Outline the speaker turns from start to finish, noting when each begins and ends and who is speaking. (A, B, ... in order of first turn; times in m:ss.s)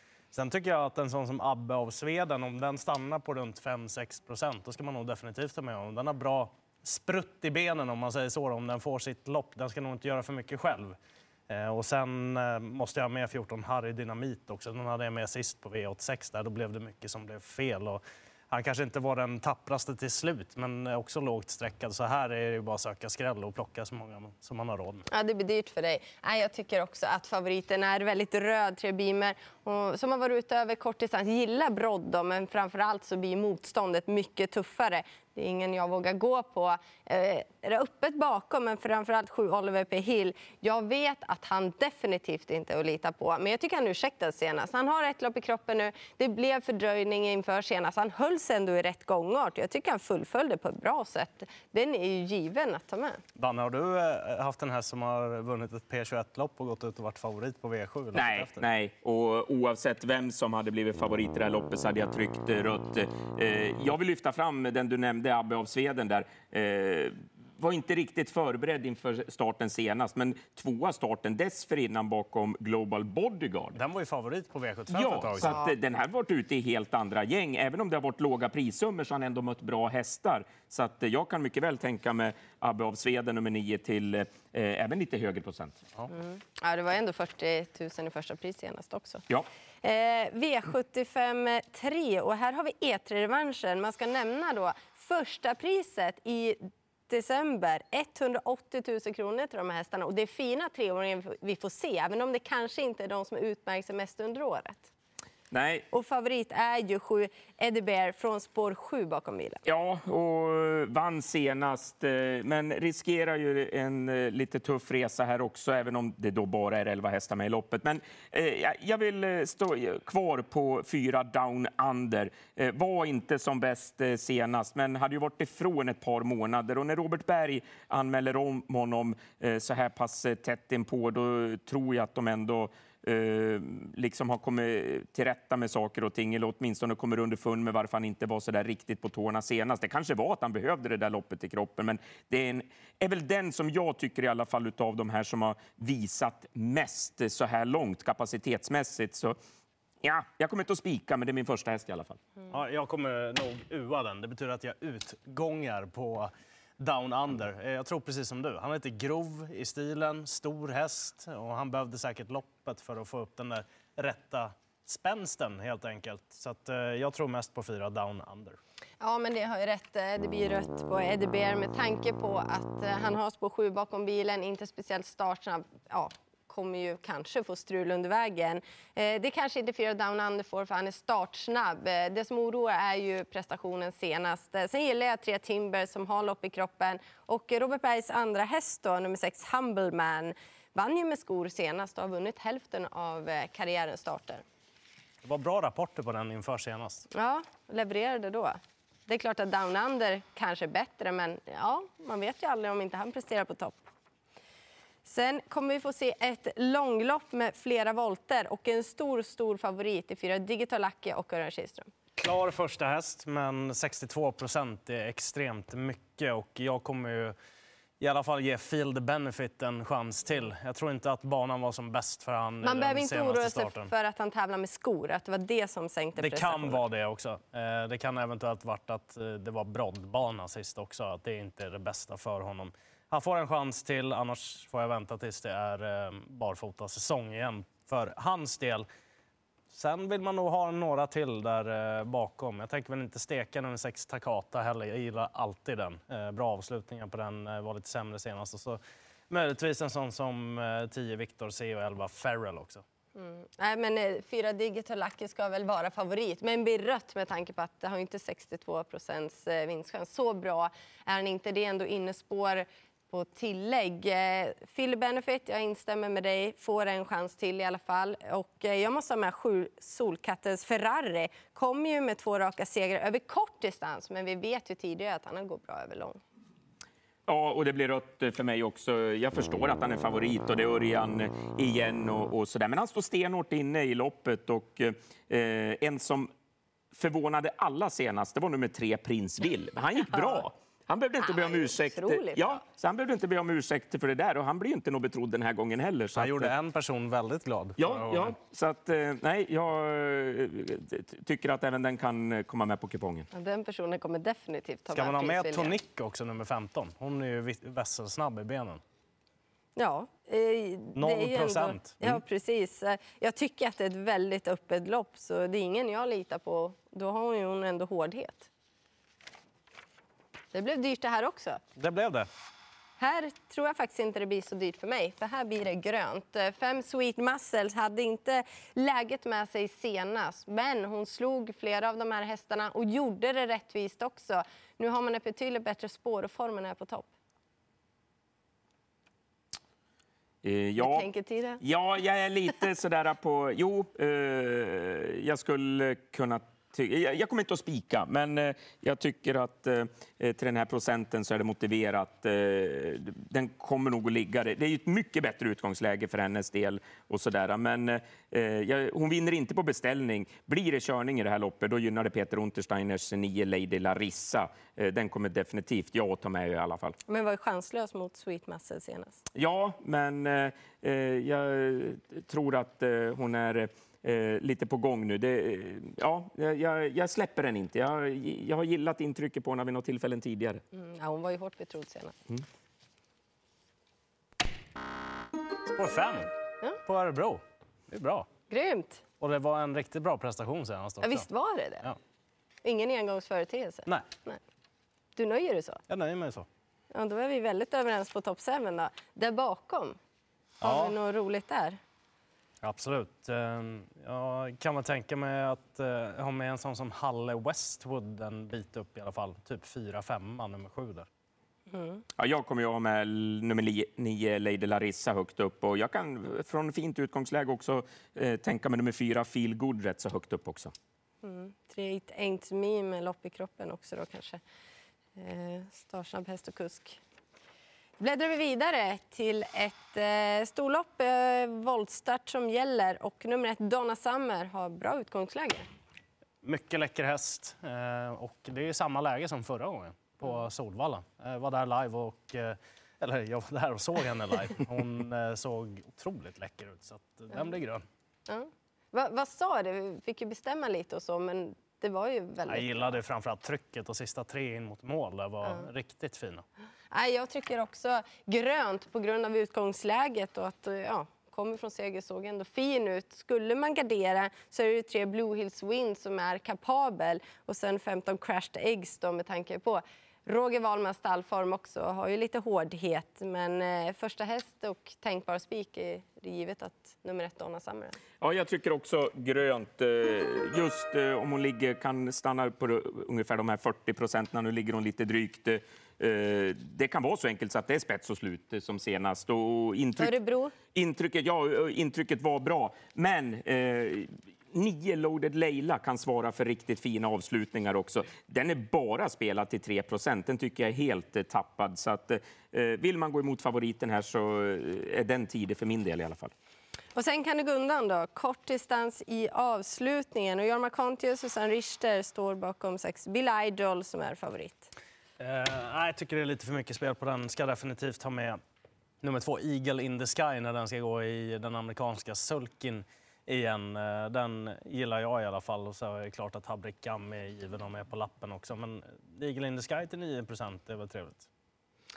0:00.3-0:11.0 A
0:11.5-0:25.1 A
0:25.1-0:53.2 B
0:53.4-0:58.6 A
0:58.1-1:13.8 C
1:13.7-1:15.6 A
1:14.9-1:25.8 C
1:26.1-1:29.2 B
1:29.8-1:44.9 B
1:45.5-1:45.9 C
1:45.9-1:49.6 B
1:49.7-2:29.4 C
2:30.0-2:32.2 C
2:32.5-2:48.6 A
2:49.0-3:14.4 B
3:15.2-3:17.1 A
3:17.1-3:23.8 B
3:25.0-3:31.9 B
3:32.2-3:37.4 A
3:38.0-3:43.9 A
3:42.6-3:46.8 B
3:46.2-3:58.9 A
3:59.7-4:12.8 A
4:13.2-4:36.2 B
4:37.3-4:46.3 C
4:46.9-4:56.5 C
4:51.2-4:52.6 B
4:56.2-4:58.3 A
4:57.8-5:03.3 C
5:03.3-5:05.8 B
5:04.9-5:08.8 A
5:09.8-5:18.5 B
5:11.0-5:12.2 A
5:20.5-5:21.6 B
5:21.8-5:22.3 A
5:23.0-5:37.1 B
5:40.4-5:41.1 C
5:40.8-5:41.6 B
5:41.6-6:07.0 C
6:07.1-6:09.2 B
6:09.3-6:20.6 C
6:20.7-6:22.1 B
6:25.7-6:26.3 A
6:26.8-6:28.3 A
6:28.5-6:29.0 B
6:29.2-6:31.3 A
6:31.0-6:31.9 B
6:32.6-6:34.4 B
6:35.2-6:35.8 B
6:35.9-6:36.5 A
6:36.9-6:40.0 B
6:40.6-6:41.0 A
6:40.6-6:41.8 B
6:42.6-6:51.1 A
6:51.7-6:52.0 B
6:52.2-7:00.7 C
7:01.2-7:04.4 B
7:05.2-7:07.0 B
7:08.0-7:15.6 B
7:16.4-7:27.8 A
7:28.3-7:33.0 B
7:32.5-7:36.4 A
7:36.9-7:58.0 B
7:58.2-8:10.2 C
8:10.0-8:10.6 B
8:10.7-8:26.3 C
8:27.0-8:34.7 B
8:35.2-8:38.4 A
8:39.0-8:51.3 A